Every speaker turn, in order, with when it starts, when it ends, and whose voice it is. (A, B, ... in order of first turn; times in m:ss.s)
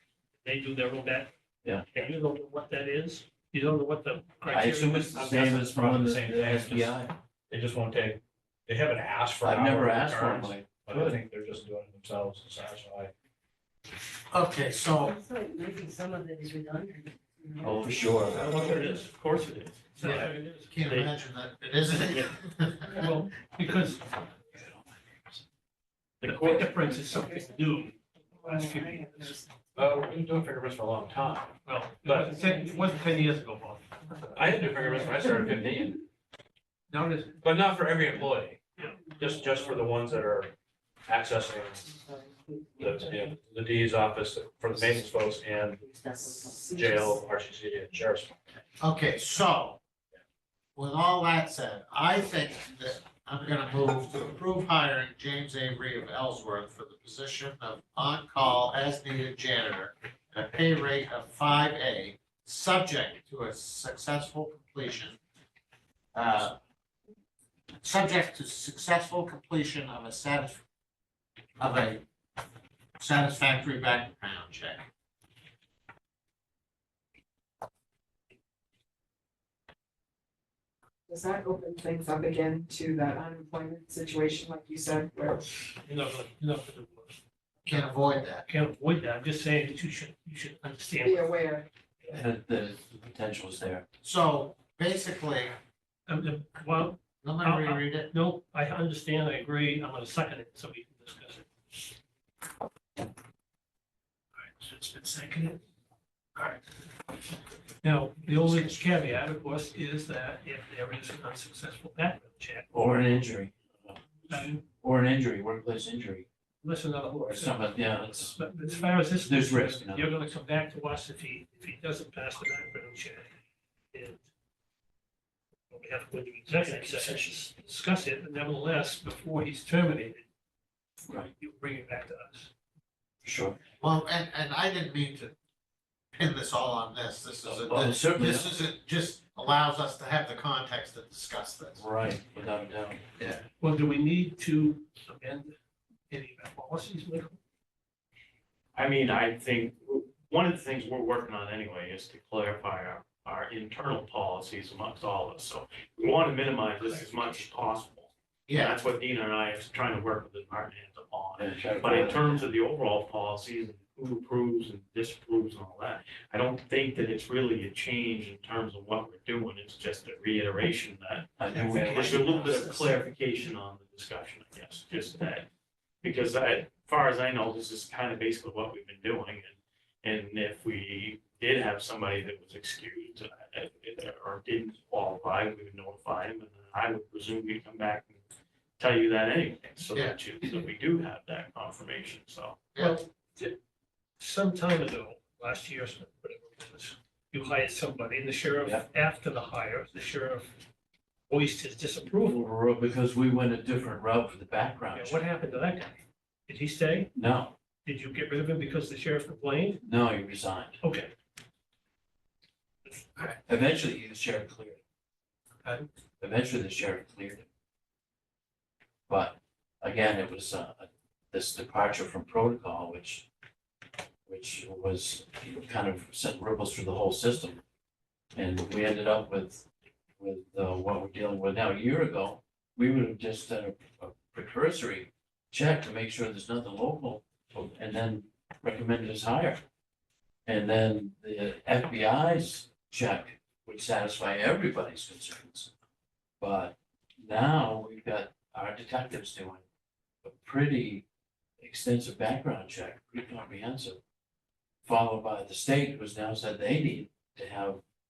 0:00.4-0:01.3 A
0:01.9-0:05.6 A
0:04.5-0:07.2 B
0:05.1-0:07.0 C
0:07.5-0:13.1 C
0:09.4-0:11.2 B
0:14.3-0:15.2 D
0:14.9-0:19.0 E
0:17.6-0:18.6 B
0:18.2-0:20.0 F
0:18.3-0:19.0 A
0:20.0-0:20.7 A
0:20.0-0:23.1 D
0:20.9-0:21.1 F
0:22.0-0:22.3 F
0:22.9-0:24.1 A
0:24.5-0:25.4 B
0:26.2-0:26.7 F
0:26.2-0:29.4 A
0:28.4-0:29.5 G
0:29.8-0:32.3 C
0:31.7-0:34.1 A
0:32.3-0:33.2 E
0:34.2-0:36.0 C
0:36.9-0:37.4 A
0:37.4-0:38.6 C
0:39.2-0:40.5 C
0:41.1-0:42.0 C
0:41.9-0:42.3 G
0:42.0-0:43.3 E
0:42.8-0:45.8 C
0:45.8-0:47.1 E
0:46.4-0:47.1 G
0:46.7-0:48.3 C
0:48.8-0:49.8 D
0:50.8-1:05.2 D
1:06.1-1:06.6 D
1:07.8-1:10.6 D
1:11.6-1:12.0 D
1:13.0-1:14.9 D
1:21.1-1:25.5 G
1:25.8-1:27.9 A
1:27.7-1:28.4 D
1:28.4-1:31.4 A
1:31.0-1:31.7 G
1:32.1-1:33.8 B
1:34.0-1:35.6 D
1:36.1-1:41.9 A
1:37.2-1:38.1 D
1:44.4-1:45.6 A
1:46.4-1:46.6 A
1:47.8-1:52.7 A
1:52.7-1:54.0 B
1:54.3-1:54.6 A
1:54.6-1:56.3 B
1:56.6-2:03.3 A
1:57.2-1:58.4 B
1:59.2-2:00.2 B
2:03.9-2:04.3 A
2:05.7-2:10.2 A
2:11.4-2:12.5 A
2:13.2-2:13.6 B
2:13.8-2:15.3 D
2:16.2-2:21.8 D
2:17.4-2:18.6 B
2:21.8-2:23.0 B
2:23.2-2:23.4 D
2:23.6-2:25.6 A
2:26.1-2:27.4 A
2:28.8-2:55.5 F
2:36.9-2:37.4 A
2:38.5-2:38.8 D
2:41.4-2:42.5 B
2:51.4-2:52.6 B
2:56.0-3:08.2 F
3:08.8-3:12.7 F
3:12.8-3:13.6 A
3:14.2-3:20.6 A
3:21.3-3:22.4 A
3:22.3-3:25.2 B
3:24.9-3:27.1 A
3:27.2-3:27.5 B
3:27.8-3:29.8 A
3:29.8-3:30.8 B
3:30.8-3:31.1 A
3:32.9-3:33.3 A
3:33.2-3:34.8 B
3:35.6-3:35.9 A
3:36.2-3:37.4 B
3:39.1-3:43.3 B
3:44.3-3:47.6 B
3:48.4-3:49.7 B
3:50.2-3:59.6 B
4:00.5-4:05.7 B
4:06.4-4:09.6 B
4:10.2-4:11.0 B
4:11.6-4:14.0 B
4:14.8-4:17.8 B